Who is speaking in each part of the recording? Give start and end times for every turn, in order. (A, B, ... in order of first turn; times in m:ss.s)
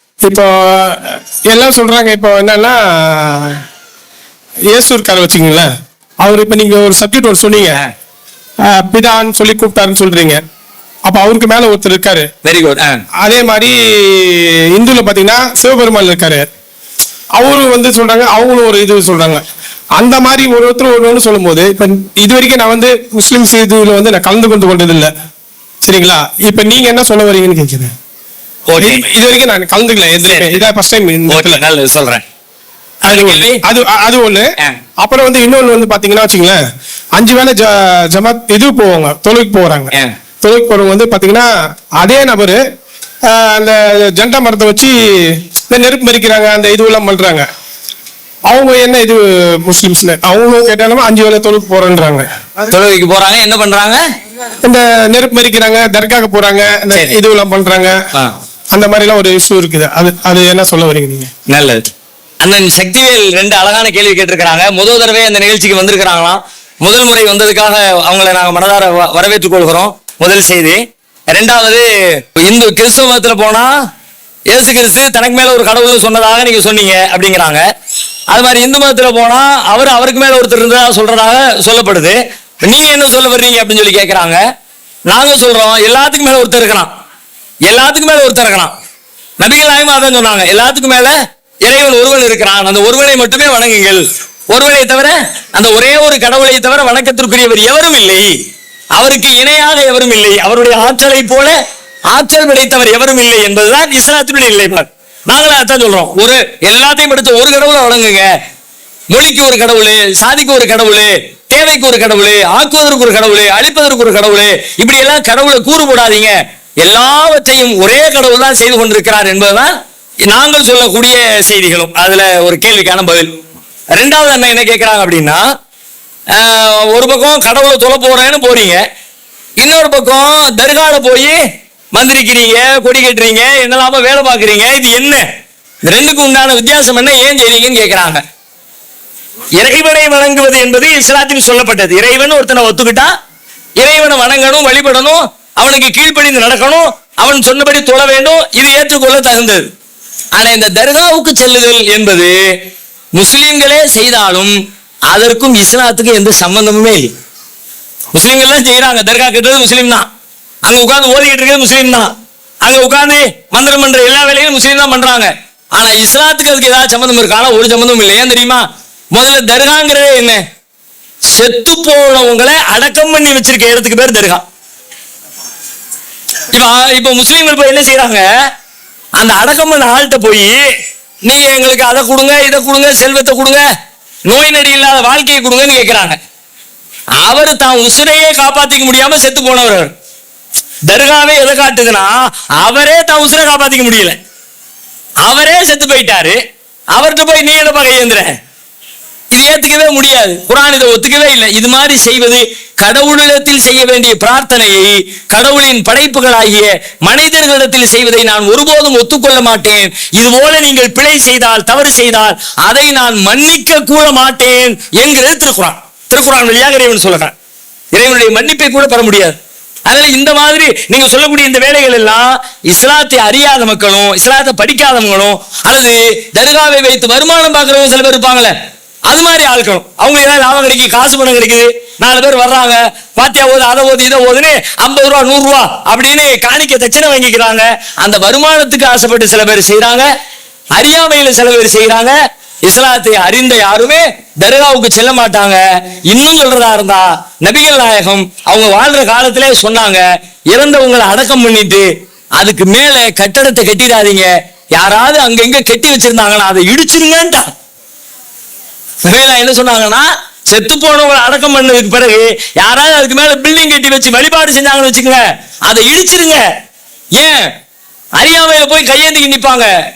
0:00.2-0:03.6 A
0:04.7-0:05.7 A
0:06.2-0:07.8 A
0:08.7-0:10.4 A
0:11.1-0:12.3 A
0:12.4-0:13.0 B
0:13.2-0:16.5 A
0:17.4-0:19.4 A
0:20.0-0:25.1 A
0:25.8-0:27.9 A
0:28.7-0:29.1 B
0:28.8-0:31.6 A
0:30.2-0:30.7 B
0:31.3-0:32.2 B
0:33.0-0:33.6 B
0:33.1-0:36.6 A
0:37.2-0:41.5 A
0:42.0-0:42.6 A
0:43.3-0:47.5 A
0:48.5-0:52.7 A
0:52.7-0:54.0 B
0:54.6-0:58.0 A
0:58.7-1:01.3 A
1:01.5-1:01.9 B
1:02.4-1:13.7 B
1:14.5-1:17.6 B
1:18.3-1:24.4 B
1:25.1-1:26.9 B
1:27.7-1:28.7 B
1:29.4-1:38.4 B
1:39.0-1:41.6 B
1:42.1-1:48.3 B
1:49.1-1:59.7 B
2:00.3-2:03.4 B
2:04.0-2:05.4 B
2:06.3-2:08.8 B
2:09.6-2:11.4 B
2:11.9-2:15.3 B
2:15.8-2:18.2 B
2:19.6-2:23.1 B
2:23.8-2:29.7 B
2:30.4-2:34.5 B
2:35.1-2:37.1 B
2:38.1-2:40.1 B
2:40.6-2:42.1 B
2:42.6-2:50.4 B
2:51.3-2:54.4 B
2:56.5-2:58.3 B
2:59.2-3:00.6 B
3:01.3-3:03.6 B
3:04.3-3:06.2 B
3:07.2-3:09.9 B
3:10.9-3:14.2 B
3:15.2-3:16.4 B
3:16.9-3:18.3 B
3:19.3-3:37.3 B
3:37.9-3:48.5 B
3:49.1-4:00.1 B
4:00.7-4:02.2 B
4:02.7-4:17.5 B
4:19.0-4:26.4 B
4:27.2-4:27.5 B
4:28.2-4:29.7 B